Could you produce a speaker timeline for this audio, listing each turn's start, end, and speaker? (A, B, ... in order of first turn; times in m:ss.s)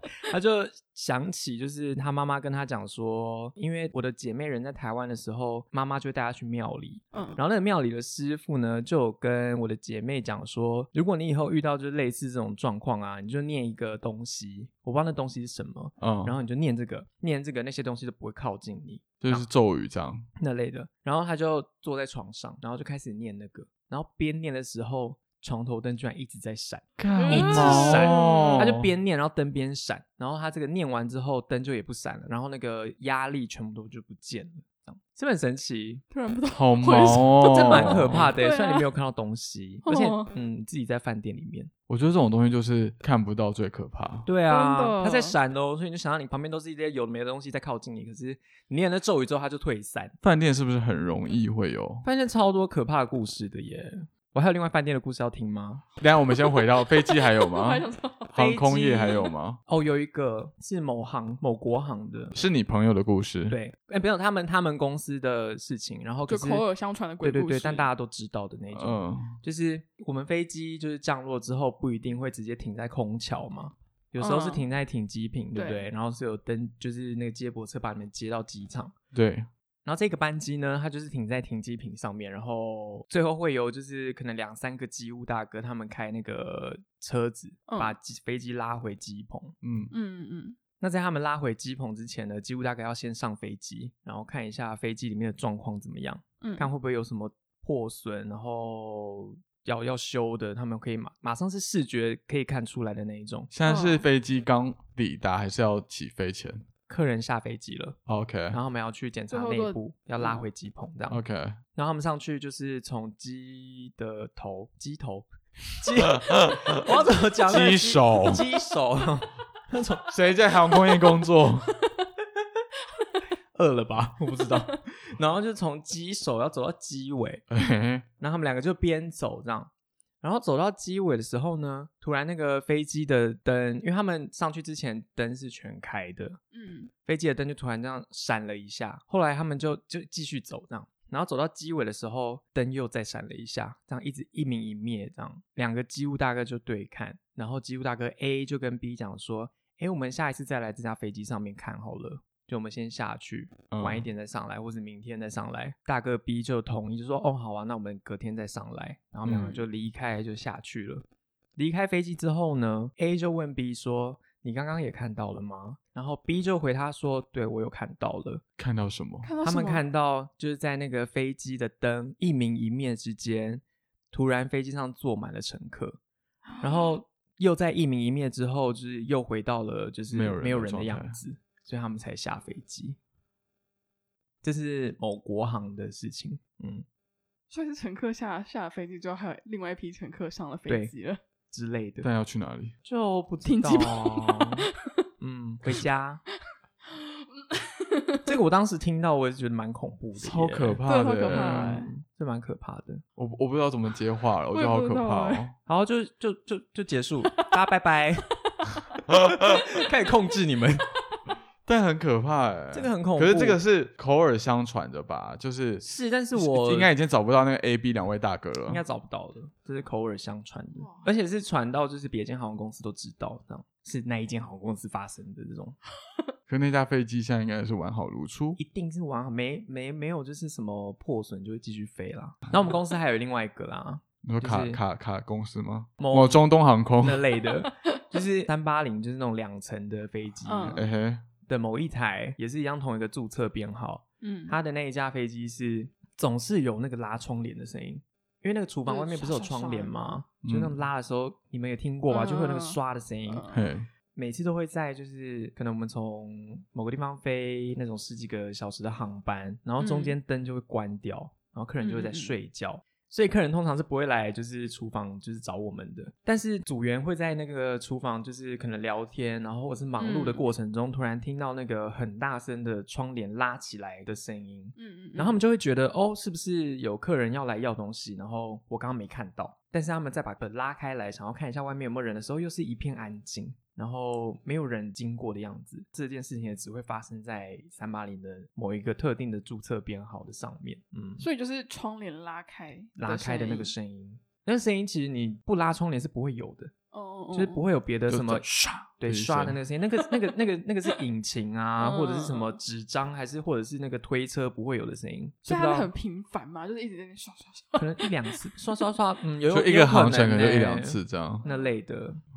0:00.3-0:19.4 A
0:07.1-0:07.4 B
0:16.0-0:16.4 C
0:19.2-0:20.2 C
0:20.4-0:36.0 A
0:27.0-0:28.9 C
0:27.2-0:28.7 B
0:36.1-0:38.9 B
0:36.5-0:38.3 C
0:37.4-0:41.7 A
0:39.8-0:40.3 B
0:41.9-0:44.3 C
0:44.2-0:50.2 A
0:44.5-0:45.4 B
0:50.2-0:52.0 C
0:52.0-0:55.8 A
0:56.0-0:59.6 C
0:56.5-0:58.3 B
0:58.4-1:02.3 A
1:02.3-1:03.6 C
1:03.5-1:06.6 A
1:06.3-1:07.9 B
1:07.2-1:18.9 A
1:08.7-1:09.4 C
1:14.2-1:14.6 B
1:15.5-1:15.9 B
1:19.1-1:19.5 C
1:19.8-1:29.6 A
1:27.7-1:27.9 B
1:29.6-1:29.9 C
1:29.9-1:30.6 B
1:30.8-1:43.5 A
1:36.4-1:36.7 B
1:43.5-1:46.6 C
1:43.6-1:44.0 B
1:46.9-1:48.0 A
1:48.1-1:48.6 C
1:48.5-1:51.2 A
1:49.3-1:50.4 B
1:51.1-1:51.6 C
1:51.7-2:00.1 A
1:56.2-1:56.8 C
1:57.5-1:58.4 C
2:00.1-2:01.7 C
2:03.5-2:07.4 A
2:07.5-2:08.0 C
2:08.2-2:16.4 A
2:16.5-2:16.9 B
2:17.0-2:41.0 A
2:33.7-2:34.0 C
2:39.2-2:39.5 C
2:41.6-2:48.4 A
2:48.6-2:49.3 C
2:49.2-2:49.8 B
2:49.4-2:56.0 A
2:56.5-2:57.0 B
2:56.6-3:03.0 A
3:00.1-3:01.2 C
3:04.4-3:06.8 A
3:07.5-3:11.2 B
3:11.5-3:12.1 A
3:12.0-3:12.7 C
3:12.8-3:14.6 A
3:13.4-3:14.7 B
3:15.2-3:16.2 A
3:16.9-3:18.3 B
3:18.2-3:23.0 A
3:20.2-3:21.8 C
3:20.8-3:21.9 B
3:23.2-3:25.5 C
3:24.5-3:25.4 B
3:25.6-3:28.3 A
3:29.1-3:30.9 A
3:31.6-3:38.8 C
3:32.7-3:33.6 A
3:35.8-3:36.9 A
3:38.7-3:45.8 A
3:40.8-3:41.1 B
3:46.5-3:48.6 C
3:48.6-3:54.8 A
3:54.2-3:57.2 C
3:56.0-3:56.4 A
3:57.0-4:00.8 A
4:00.4-4:00.8 B
4:00.7-4:01.2 C
4:01.4-4:13.4 A
4:04.2-4:04.6 B
4:08.8-4:10.2 B
4:10.4-4:10.7 C
4:12.1-4:12.8 B
4:13.3-4:13.6 B
4:13.5-4:13.9 C
4:14.1-4:51.2 A
4:19.8-4:20.1 B
4:21.8-4:22.3 B
4:30.0-4:30.4 B
4:34.8-4:35.4 B
4:51.2-4:53.7 B
4:53.0-4:56.7 A
4:56.9-4:57.6 B
4:57.3-4:58.4 A
4:58.1-4:59.6 C
4:59.0-5:05.9 A
5:01.8-5:02.6 B
5:05.4-5:08.3 B
5:07.8-5:12.2 A
5:09.5-5:11.4 C
5:11.4-5:11.7 B